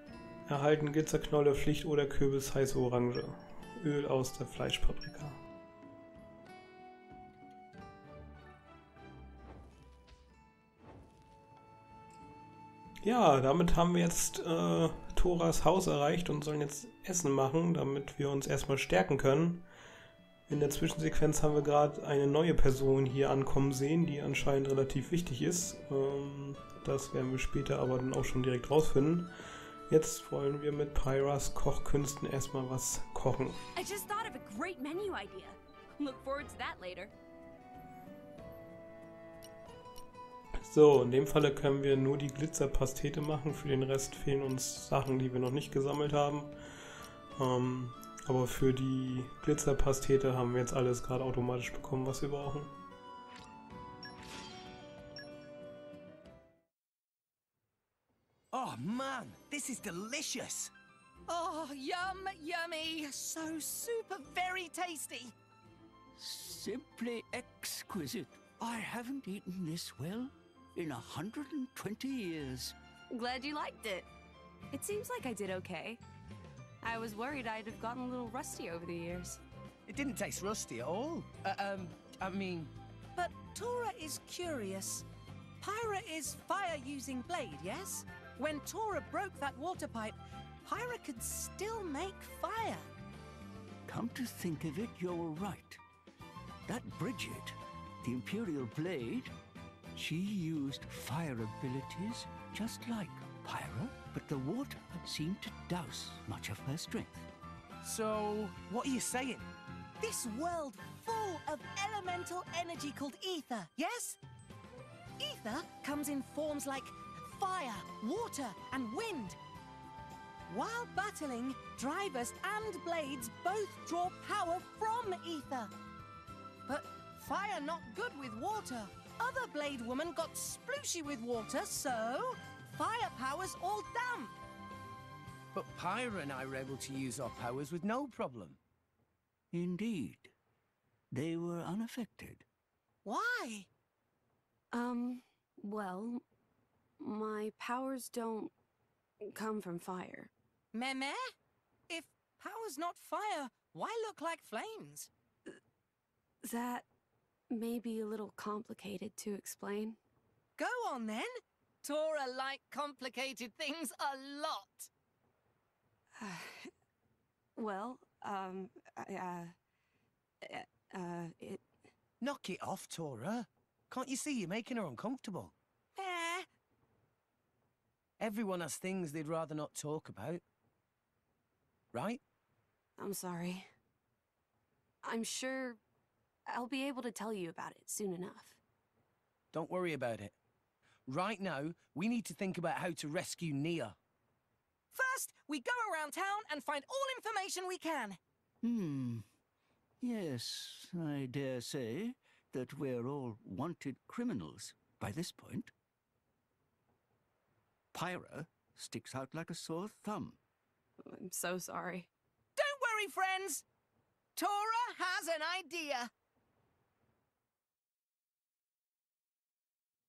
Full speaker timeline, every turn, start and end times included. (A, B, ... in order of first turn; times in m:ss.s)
0:00.5-0:05.4 A
0:13.0-0:19.6 A
0:20.5-0:29.3 A
0:29.9-0:33.6 A
0:33.8-0:37.1 B
0:40.6-0:46.5 A
0:47.4-0:52.7 A
0:58.5-1:00.7 C
1:01.3-1:05.3 D
1:06.2-1:12.7 E
1:13.1-1:14.1 B
1:14.7-1:16.0 B
1:16.8-1:19.4 B
1:19.9-1:22.7 C
1:23.1-1:25.0 D
1:25.6-1:32.8 D
1:33.9-1:35.8 E
1:36.7-1:39.3 E
1:39.9-1:47.3 E
1:47.8-1:49.5 C
1:50.0-1:54.2 D
1:55.2-1:59.4 D
2:00.5-2:05.7 D
2:06.7-2:14.4 D
2:15.5-2:18.6 C
2:19.5-2:20.3 E
2:21.1-2:22.4 E
2:23.0-2:23.7 D
2:24.7-2:26.2 B
2:27.0-2:28.5 B
2:29.2-2:30.3 B
2:30.7-2:31.3 D
2:31.9-2:35.1 D
2:36.4-2:36.9 B
2:37.5-2:40.0 B
2:40.6-2:44.9 D
2:46.2-2:46.7 B
2:47.6-2:49.5 B
2:50.4-2:51.7 B
2:52.2-2:55.5 C
2:56.0-2:56.5 D
2:58.2-3:00.4 C
3:01.9-3:02.2 C
3:03.0-3:03.7 B
3:05.0-3:05.8 B
3:06.5-3:08.6 B
3:09.5-3:10.3 C
3:11.1-3:14.0 C
3:14.9-3:18.2 D
3:18.6-3:19.3 E
3:20.0-3:25.7 E
3:27.9-3:30.4 E
3:31.0-3:32.1 B
3:32.6-3:33.6 D
3:34.4-3:36.1 D